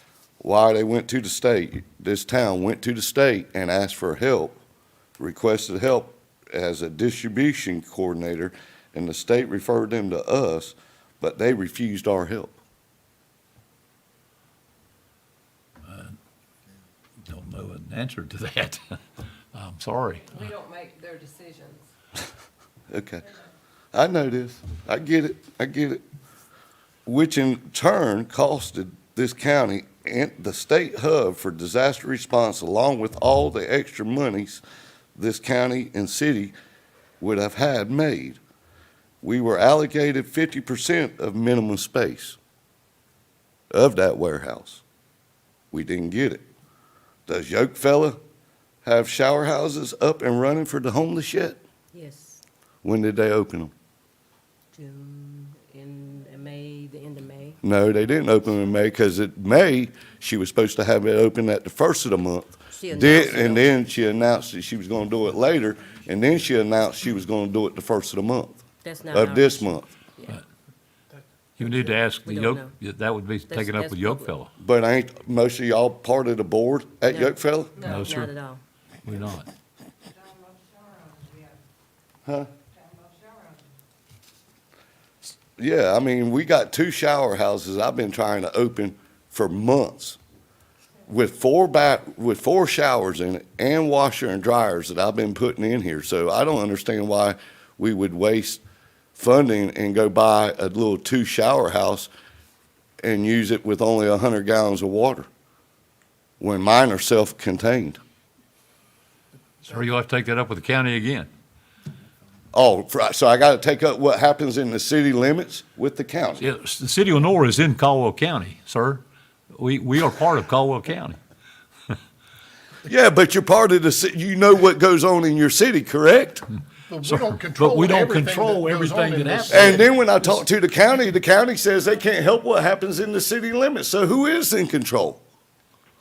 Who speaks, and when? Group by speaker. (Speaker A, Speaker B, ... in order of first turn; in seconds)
Speaker A: 0.4-4.6, 5.2-12.6, 22.9-23.3, 23.9-26.0, 27.1-34.6, 35.2-36.5, 37.2-38.4, 39.2-42.4, 43.7-44.8, 45.7-46.5, 47.3-48.2, 48.9-51.6, 52.8-53.7, 57.6-69.9, 74.6-77.9, 85.6-90.2, 91.1-98.6, 99.2-102.1, 103.0-105.3, 106.4-108.0, 112.5-116.5, 122.9-126.5, 129.5-135.2
Speaker B: 15.8-16.2, 17.2-19.0, 19.5-20.5, 71.6-74.5, 77.8-78.3, 79.0-79.5, 109.6-111.3, 116.4-121.2, 127.0-130.4
Speaker C: 20.4-21.9, 51.9-52.4, 54.7-57.6, 62.7-63.7, 68.8-70.4, 72.2-72.7, 73.5-74.3, 77.1-78.6
Speaker D: 126.9-129.7